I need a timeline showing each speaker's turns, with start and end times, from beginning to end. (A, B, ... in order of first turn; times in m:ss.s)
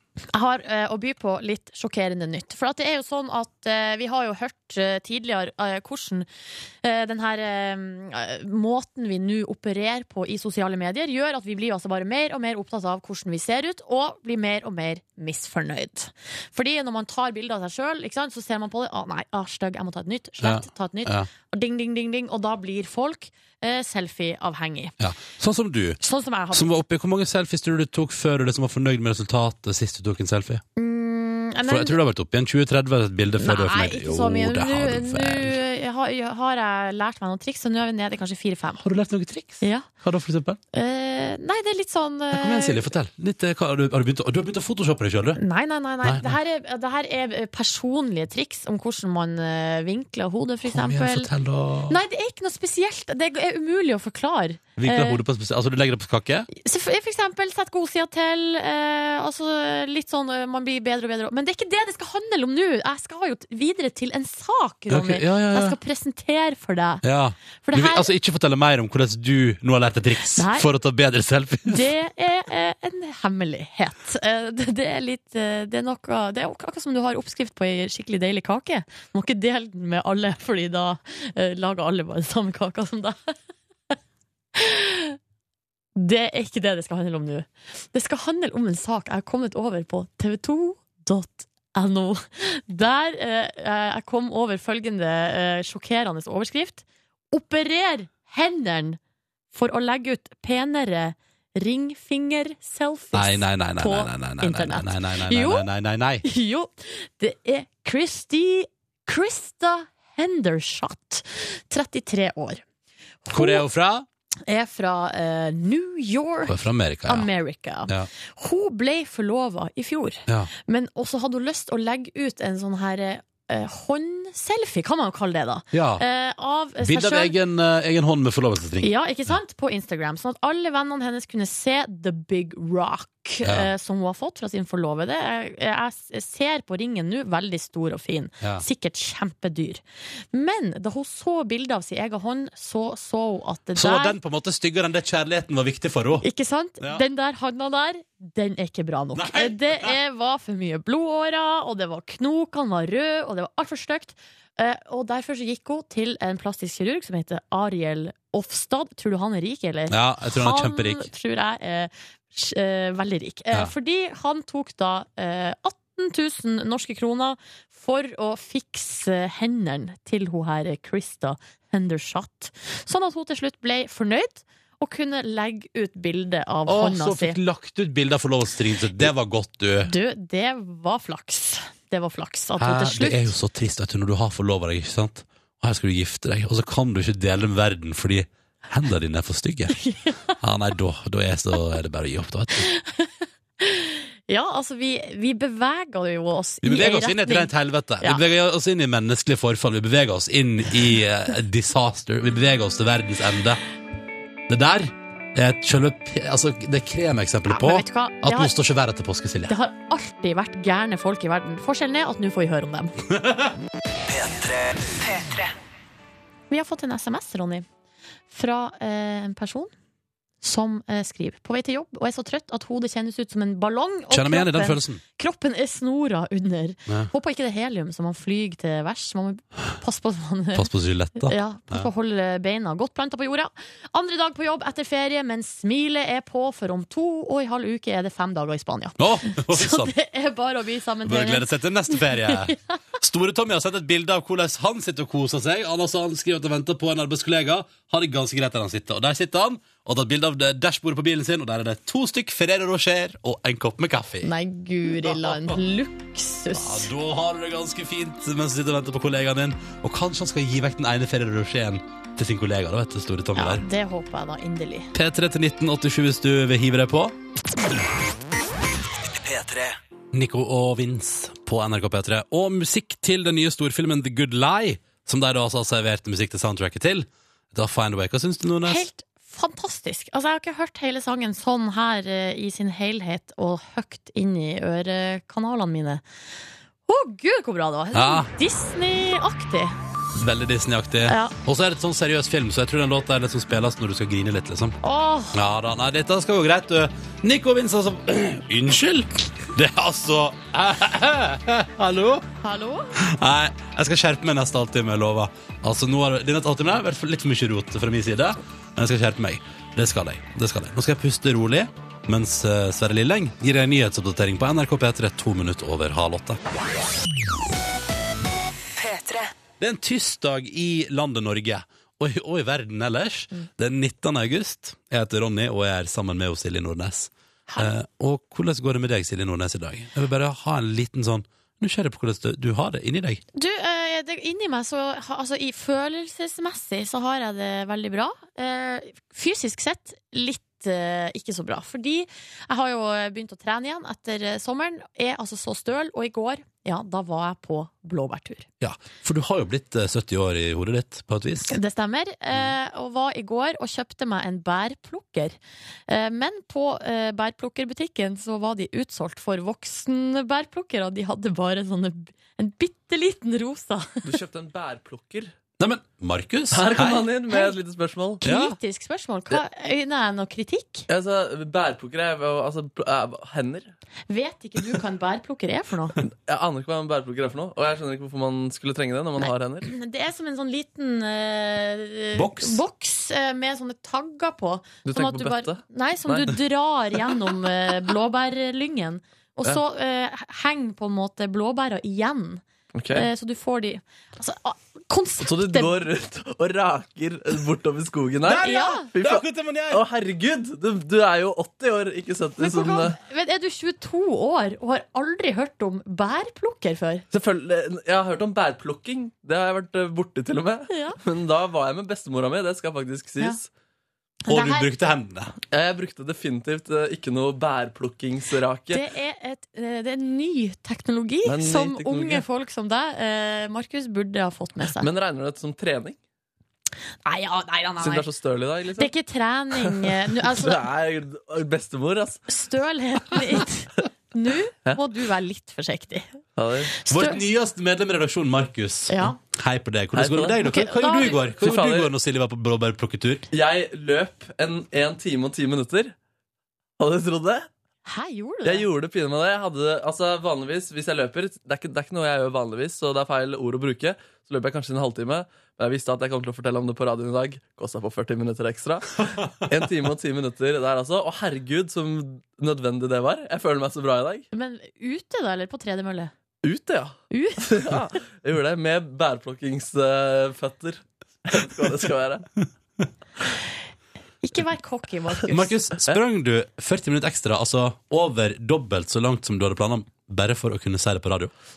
0:00.3-0:06.3 A
0:06.8-0:25.0 A
0:20.4-0:21.3 B
0:25.0-0:26.0 B
0:26.0-0:26.8 A
0:26.5-0:30.6 B
0:30.8-0:32.0 A
0:31.7-0:35.6 B
0:33.4-0:38.8 A
0:38.8-0:40.6 B
0:39.6-0:39.9 A
0:40.7-0:42.8 A
0:42.3-0:45.4 B
0:45.4-0:51.3 A
0:46.0-0:46.3 B
0:50.7-0:52.0 B
0:51.9-0:55.2 A
0:54.8-0:56.5 B
0:56.5-1:07.0 A
1:04.9-1:05.8 B
1:07.0-1:11.8 B
1:07.6-1:08.1 A
1:10.4-1:10.7 A
1:11.7-1:23.3 A
1:24.6-1:25.2 A
1:26.0-1:39.0 A
1:39.5-1:45.7 A
1:43.1-1:46.2 B
1:46.2-1:52.6 A
1:53.2-1:53.6 A
1:53.3-1:54.1 B
1:54.5-2:07.4 A
1:56.5-1:57.3 B
2:05.7-2:06.0 B
2:06.8-2:08.9 B
2:08.8-2:24.2 A
2:13.4-2:13.7 B
2:23.8-2:26.3 B
2:26.2-2:57.4 A
2:29.2-2:30.0 B
2:39.9-2:41.1 B
2:56.7-2:59.9 B
2:59.8-3:03.3 A
3:02.6-3:09.8 B
3:09.8-3:10.3 A
3:10.4-3:12.7 B
3:12.6-3:18.2 A
3:16.6-3:23.6 B
3:24.5-3:29.5 B
3:27.5-3:28.5 A
3:29.5-3:33.0 A
3:33.1-3:33.5 B
3:34.1-3:35.5 C
3:36.5-3:37.6 A
3:38.3-3:39.7 A
3:40.4-4:02.8 A
3:44.1-3:45.0 B
3:50.6-3:51.9 B
3:59.0-3:59.9 B
4:01.0-4:14.3 B
4:14.2-4:16.9 A
4:15.0-4:15.6 B
4:16.5-4:23.6 B
4:23.4-4:24.9 A
4:24.9-4:27.2 B
4:29.2-4:29.7 C
4:30.1-4:38.8 B
4:38.6-4:46.0 A
4:46.9-4:49.8 A
4:47.9-4:48.3 B
4:50.2-4:54.8 B
4:51.0-4:51.4 A
4:54.8-4:55.4 A
4:55.3-5:02.2 B
5:02.4-5:02.9 A
5:03.0-5:16.4 B
5:18.8-5:19.3 C
5:19.6-5:33.2 B
5:33.3-5:48.5 A
5:48.6-5:51.6 B
5:51.5-5:55.4 A
5:55.9-6:04.0 A
6:04.0-6:05.3 D
6:05.6-6:07.0 B
6:06.5-6:08.2 D
6:08.2-6:10.9 A
6:08.2-6:08.6 B
6:10.9-6:13.7 D
6:14.1-6:16.0 A
6:16.1-6:19.7 D
6:19.2-6:35.8 A
6:22.2-6:22.6 B
6:24.8-6:26.4 D
6:32.7-6:33.1 D
6:35.2-6:43.0 D
6:38.2-6:39.8 B
6:38.4-6:38.9 A
6:42.4-6:47.0 A
6:47.1-6:53.5 D
6:50.7-6:51.0 A
6:54.3-6:54.7 A
6:54.3-6:55.4 B
6:55.5-6:58.8 D
6:58.7-7:04.9 A
7:01.2-7:02.2 D
7:04.8-7:06.0 D
7:07.0-7:08.1 A
7:07.8-7:08.9 D
7:08.8-7:10.6 A
7:09.6-7:12.2 D
7:12.3-7:16.2 A
7:16.4-7:16.8 D
7:16.7-7:17.2 A
7:16.9-7:23.3 B
7:18.9-7:19.2 A
7:20.0-7:20.4 D
7:20.4-7:21.3 A
7:21.4-7:21.9 D
7:23.3-7:26.0 D
7:26.8-7:27.5 D
7:27.9-7:28.7 A
7:28.4-7:44.3 D
7:44.3-7:46.1 A
7:46.4-7:52.2 D
7:47.1-7:47.7 A
7:54.2-7:55.6 A
7:55.3-8:01.3 B